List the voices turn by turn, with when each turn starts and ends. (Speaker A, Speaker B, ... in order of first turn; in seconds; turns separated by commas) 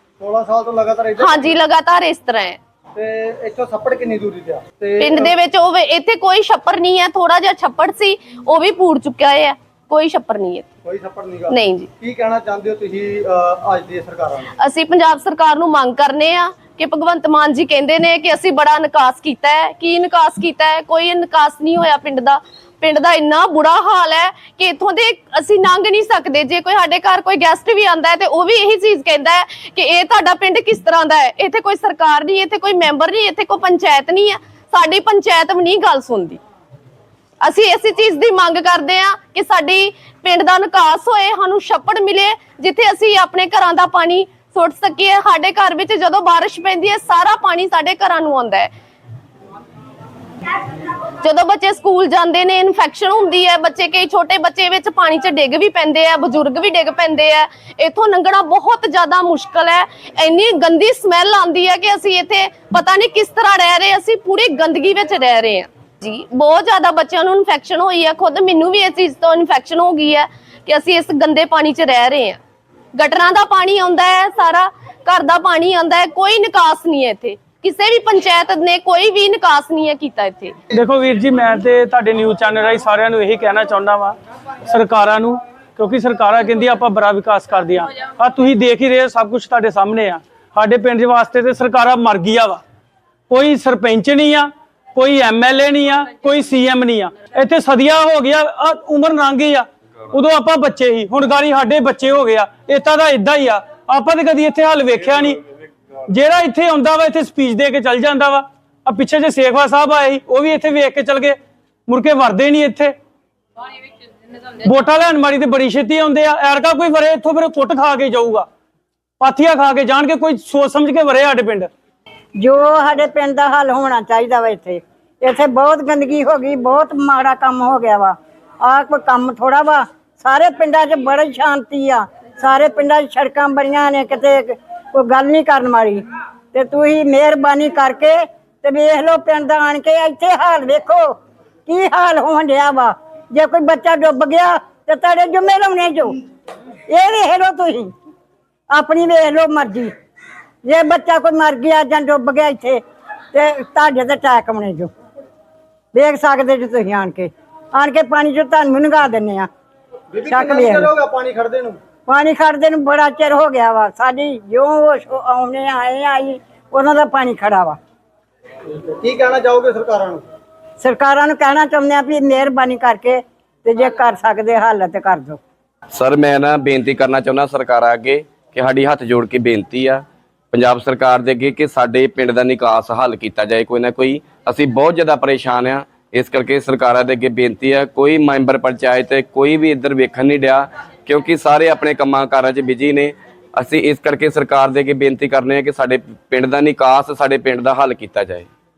Speaker A: 0.2-1.6, Speaker B: 1.2-2.6, Speaker A: 2.9-5.3, Speaker B: 5.0-10.7, Speaker A: 10.8-14.5, Speaker B: 11.5-11.9, Speaker B: 14.6-36.4, Speaker B: 37.4-48.7, Speaker B: 51.2-72.4, Speaker B: 73.0-80.5, Speaker C: 80.7-92.6, Speaker C: 93.3-105.4, Speaker C: 106.1-112.9, Speaker C: 114.6-118.5, Speaker C: 119.2-121.7, Speaker D: 122.4-136.0, Speaker D: 136.5-141.1, Speaker D: 141.7-146.1, Speaker D: 146.9-147.9, Speaker D: 148.7-149.9, Speaker D: 150.6-152.8, Speaker D: 153.3-154.9, Speaker D: 155.9-159.5, Speaker A: 160.1-161.8, Speaker D: 160.2-160.9, Speaker D: 162.1-167.8, Speaker A: 168.7-170.2, Speaker D: 170.8-175.4, Speaker E: 175.9-198.5